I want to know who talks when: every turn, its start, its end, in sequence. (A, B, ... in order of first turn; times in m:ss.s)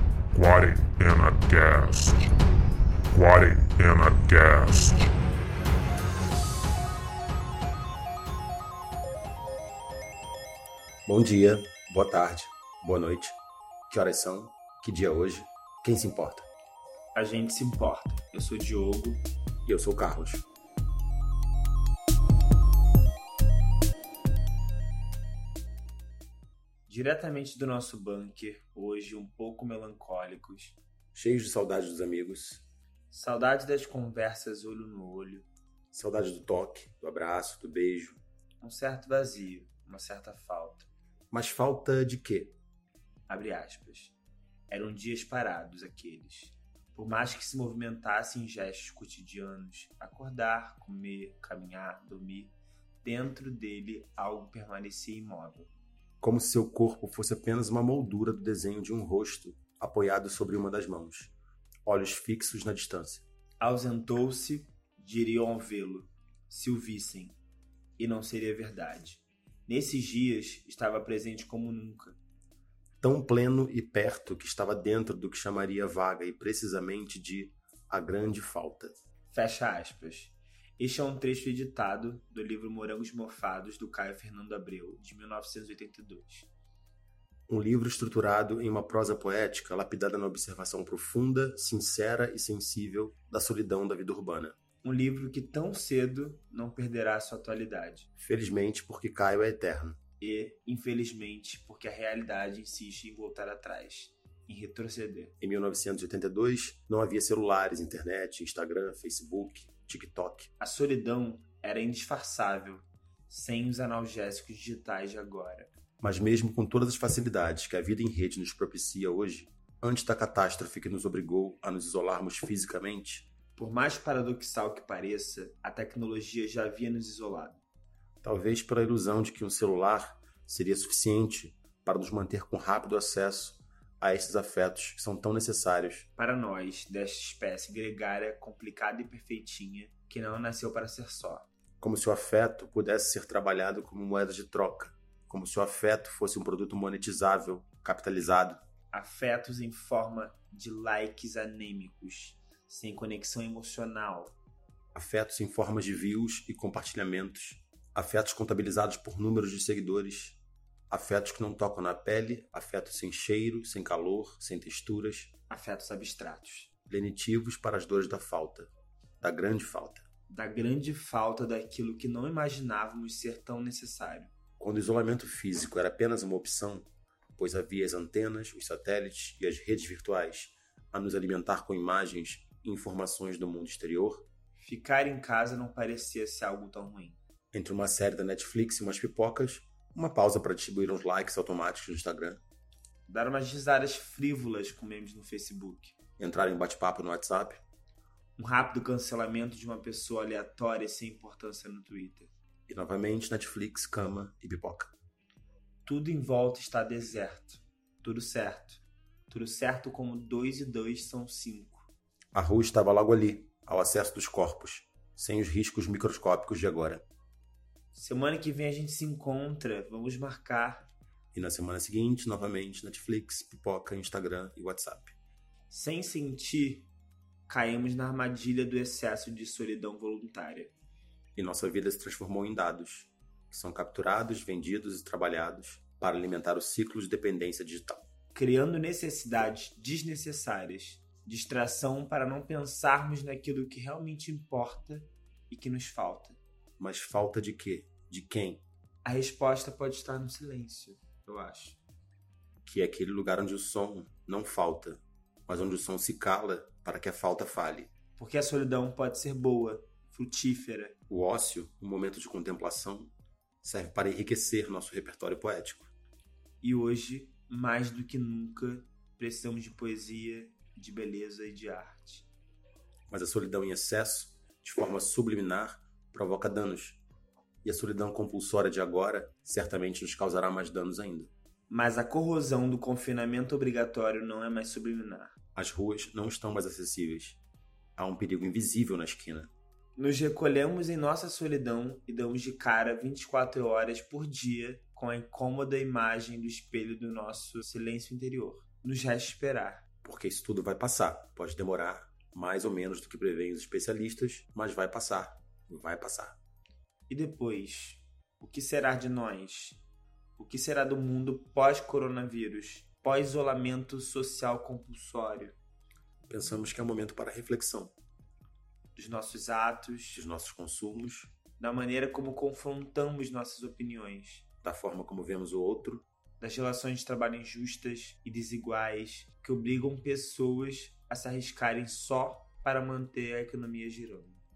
0:00.3-0:02.2 A
0:03.1-0:05.0 A
0:11.1-0:13.4 B
0:13.9-0:16.5 B
0:17.2-0:19.2 C
0:19.7-0:20.4 B
0:26.9-0:30.8 C
0:31.1-0:32.6 B
0:33.1-0:35.5 C
0:35.9-0:38.2 B
0:38.6-0:40.9 C
0:41.3-0:42.6 B
0:43.3-0:44.2 C
0:44.7-0:55.7 C
0:56.2-1:01.3 B
1:01.8-1:03.2 B
1:03.6-1:07.4 C
1:08.0-1:12.2 C
1:13.0-1:18.9 B
1:19.3-1:26.5 C
1:27.5-1:34.6 B
1:34.8-1:38.1 C
1:38.2-1:40.0 B
1:40.2-1:45.4 C
1:45.4-1:50.5 B
1:50.6-1:55.7 C
1:56.0-2:03.3 B
2:03.6-2:07.6 C
2:08.2-2:16.1 B
2:16.2-2:21.5 C
2:21.8-2:28.6 B
2:28.9-2:34.4 C
2:35.0-2:45.3 B
2:45.5-2:46.7 C
2:46.9-2:50.1 B
2:50.3-2:54.4 C
2:54.6-3:04.3 B
3:04.6-3:07.2 C
3:07.5-3:12.4 B
3:13.1-3:16.0 C
3:16.2-3:17.6 B
3:18.4-3:22.3 C
3:22.7-3:24.9 B
3:25.8-3:31.9 C
3:32.3-3:37.0 B
3:37.9-3:40.9 C
3:41.3-3:45.2 B
3:45.7-3:46.9 C
3:47.5-3:50.7 C
3:51.4-3:58.0 B
3:58.3-4:06.4 C
4:06.8-4:08.6 B
4:09.0-4:11.8 C
4:12.6-4:17.9 B
4:18.2-4:21.0 C
4:21.1-4:23.1 B
4:23.6-4:25.9 B
4:26.6-4:32.3 C
4:33.1-4:37.0 B
4:37.6-4:41.3 B
4:41.7-4:45.4 C
4:45.6-4:47.4 B
4:48.0-4:49.5 B
4:50.0-4:59.8 C
5:00.0-5:06.4 B
5:07.1-5:09.8 C
5:10.4-5:15.6 C
5:16.3-5:17.9 B
5:19.0-5:20.2 C
5:20.2-5:21.3 B
5:21.6-5:24.4 C
5:24.6-5:26.0 B
5:26.4-5:34.4 C